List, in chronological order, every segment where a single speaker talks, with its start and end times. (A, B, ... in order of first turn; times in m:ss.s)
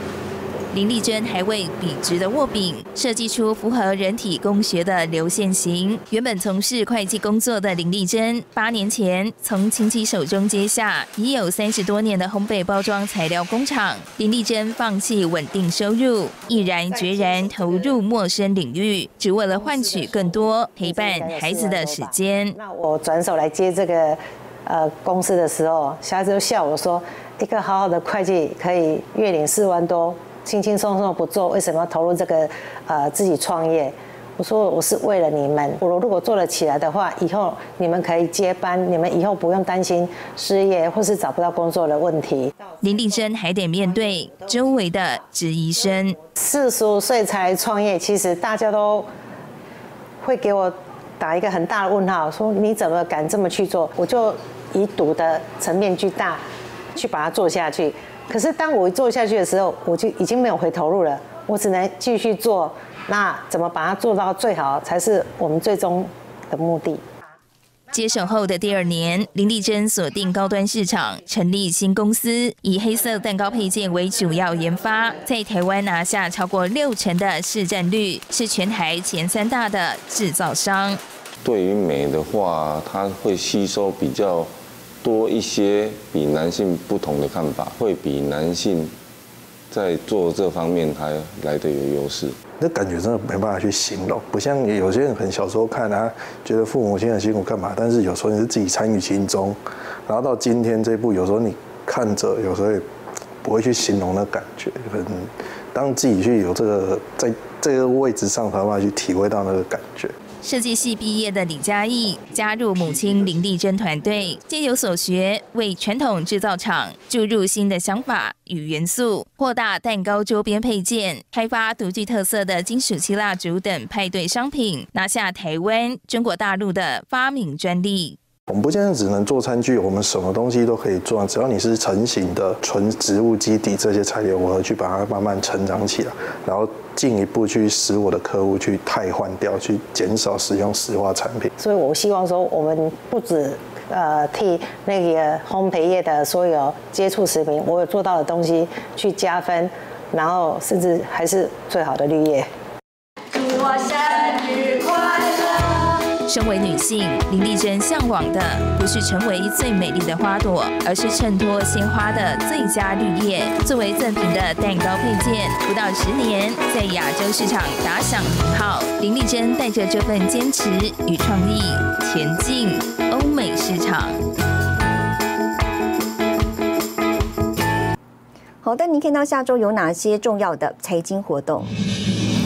0:00.7-0:22.6 A
0:20.8-0:42.5 B
0:42.8-0:46.2 A
0:46.4-0:49.0 B
0:50.2-0:56.4 B
0:57.0-1:07.0 B
1:07.9-1:21.0 A
1:21.4-1:28.9 C
1:29.7-1:32.4 C
1:32.6-1:42.8 D
1:43.4-1:50.1 D
1:50.4-2:08.2 A
2:08.5-2:21.5 D
2:21.6-2:32.4 B
2:36.2-2:54.2 A
2:58.6-3:01.7 E